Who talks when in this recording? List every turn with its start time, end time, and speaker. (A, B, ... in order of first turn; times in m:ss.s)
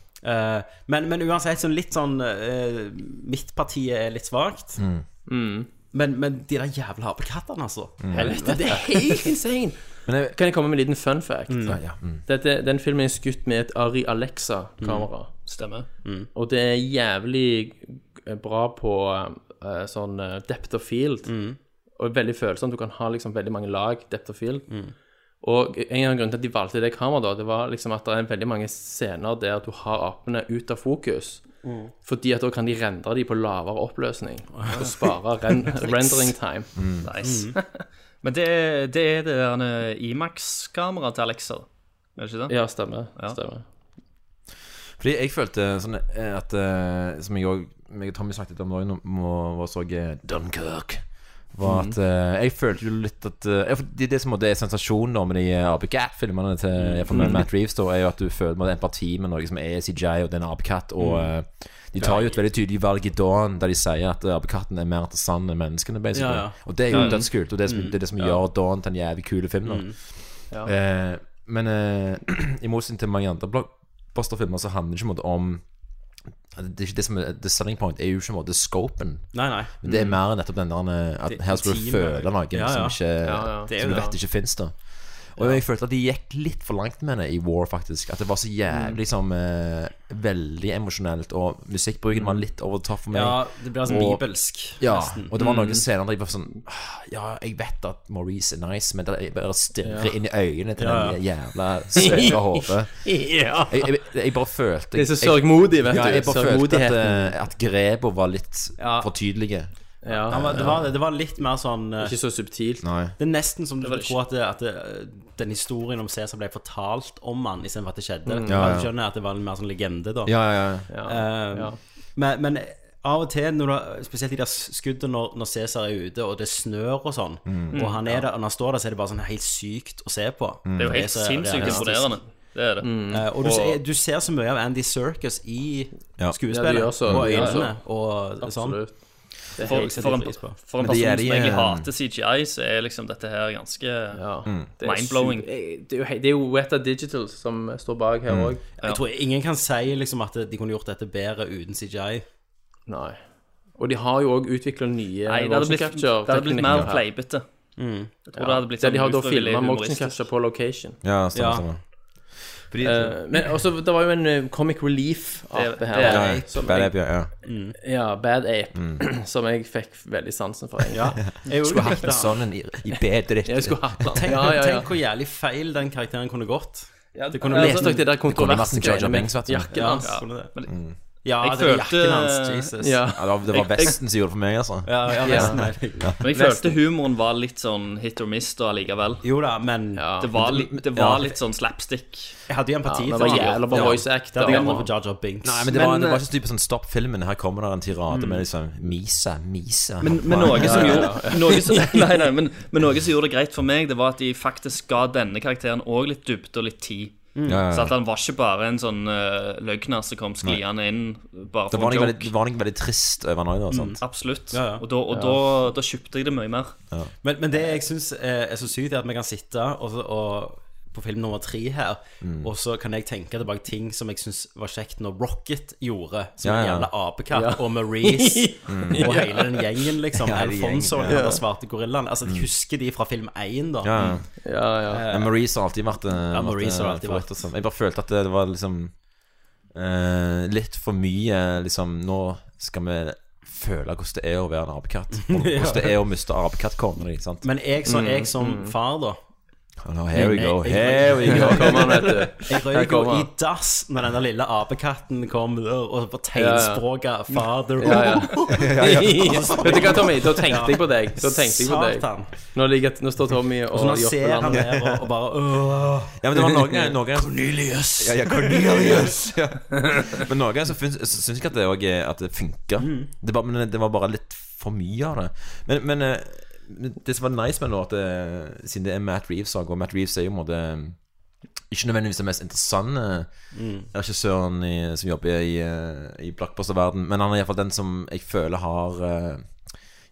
0:00.2-0:04.8 A
0:04.8-0:05.1 B
0:05.3-0:05.7 C
0:05.9-0:09.2 A
0:08.0-0:08.3 B
0:08.1-0:15.3 C
0:10.1-0:10.4 B
0:11.5-0:11.8 A
0:11.7-0:12.2 B
0:14.8-0:15.1 A
0:15.5-0:15.9 D
0:16.3-0:21.3 C
0:21.3-0:21.6 A
0:22.0-0:24.7 C
0:25.4-0:36.8 C
0:31.6-0:31.9 A
0:35.6-0:36.3 D
0:36.8-0:37.1 B
0:37.0-0:43.4 D
0:37.2-0:37.5 A
0:42.5-0:43.6 C
0:45.0-1:15.6 B
0:51.6-0:52.0 C
0:56.8-0:57.4 A
0:57.1-0:57.4 C
1:06.2-1:08.0 A
1:06.9-1:07.3 C
1:09.7-1:10.0 A
1:16.6-1:34.2 B
1:19.3-1:19.7 A
1:19.8-1:20.2 C
1:21.3-1:24.1 A
1:23.2-1:24.1 C
1:28.7-1:29.0 C
1:33.1-1:35.3 A
1:34.8-1:50.7 B
1:35.4-1:35.8 C
1:39.8-1:40.1 C
1:40.8-1:41.2 A
1:42.0-1:43.9 C
1:44.9-1:47.3 C
1:48.8-1:49.1 A
1:50.0-1:50.8 C
1:50.3-1:52.1 A
1:52.0-1:52.9 C
1:52.8-1:53.2 B
1:53.2-2:12.2 A
1:53.8-1:54.2 C
1:58.3-1:58.8 C
1:58.5-1:58.9 B
2:00.3-2:00.9 B
2:00.9-2:01.8 C
2:07.5-2:07.8 B
2:07.7-2:08.2 C
2:10.7-2:11.0 B
2:10.8-2:12.9 D
2:11.6-2:12.1 C
2:12.8-2:13.6 C
2:13.1-2:18.8 A
2:16.5-2:20.4 C
2:17.0-2:17.5 B
2:17.3-2:17.6 D
2:19.6-2:20.6 A
2:19.6-2:25.5 D
2:20.8-2:21.9 B
2:24.2-2:28.7 C
2:28.3-2:28.6 B
2:28.8-2:32.2 A
2:32.9-2:33.2 C
2:33.8-2:37.0 C
2:35.3-2:37.4 D
2:36.6-2:36.9 B
2:37.8-2:38.1 A
2:38.3-2:40.2 D
2:38.4-2:41.0 C
2:41.0-2:43.2 B
2:41.4-2:41.7 A
2:42.8-2:47.0 C
2:45.5-2:46.4 D
2:46.0-2:46.8 A
2:46.1-2:47.3 B
2:47.4-2:47.8 A
2:47.8-2:51.3 C
2:48.8-2:49.0 B
2:50.9-2:52.4 A
2:51.4-2:54.3 B
2:53.4-2:54.9 C
2:54.2-2:58.1 A
2:57.2-3:00.2 C
2:57.6-2:59.9 B
2:59.7-3:00.5 A
3:00.0-3:00.8 D
3:00.7-3:01.0 B
3:01.2-3:03.0 A
3:01.4-3:02.7 D
3:02.8-3:03.9 C
3:03.2-3:06.2 B
3:03.6-3:03.9 D
3:04.9-3:06.5 A
3:05.2-3:05.6 C
3:06.2-3:09.2 D
3:06.3-3:06.7 C
3:09.2-3:10.0 A
3:10.0-3:10.3 C
3:10.2-3:12.4 D
3:10.4-3:11.4 B
3:12.5-3:15.7 A
3:12.9-3:14.9 C
3:13.1-3:14.8 D
3:13.7-3:14.0 B
3:15.4-3:21.3 B
3:15.7-3:16.2 D
3:18.1-3:18.4 A
3:20.0-3:27.2 D
3:20.4-3:21.9 C
3:27.4-3:27.6 A
3:27.5-3:28.0 B
3:27.7-3:32.3 D
3:31.7-3:34.0 B
3:33.7-3:34.8 A
3:34.0-3:36.8 D
3:35.1-3:35.4 C
3:37.2-3:54.2 A
3:42.2-3:42.5 B
3:46.4-3:46.9 B
3:47.3-3:50.0 C
3:48.7-3:49.1 B
3:50.2-3:51.3 B
3:51.0-3:51.4 C
3:53.8-3:54.4 B
3:54.0-3:55.0 C
3:54.9-3:55.3 A
3:55.1-3:58.9 B
3:56.3-3:57.3 A
3:59.7-4:07.5 B
4:05.2-4:05.9 A
4:07.4-4:09.2 A
4:07.8-4:08.8 C
4:09.8-4:12.0 B
4:10.1-4:22.3 A
4:11.2-4:13.3 C
4:16.4-4:16.8 C
4:17.8-4:24.6 C
4:18.2-4:20.2 B
4:23.7-4:29.1 A
4:24.5-4:25.1 B
4:26.2-4:41.0 B
4:32.8-4:33.1 A
4:41.7-4:49.6 B
4:43.5-4:43.9 A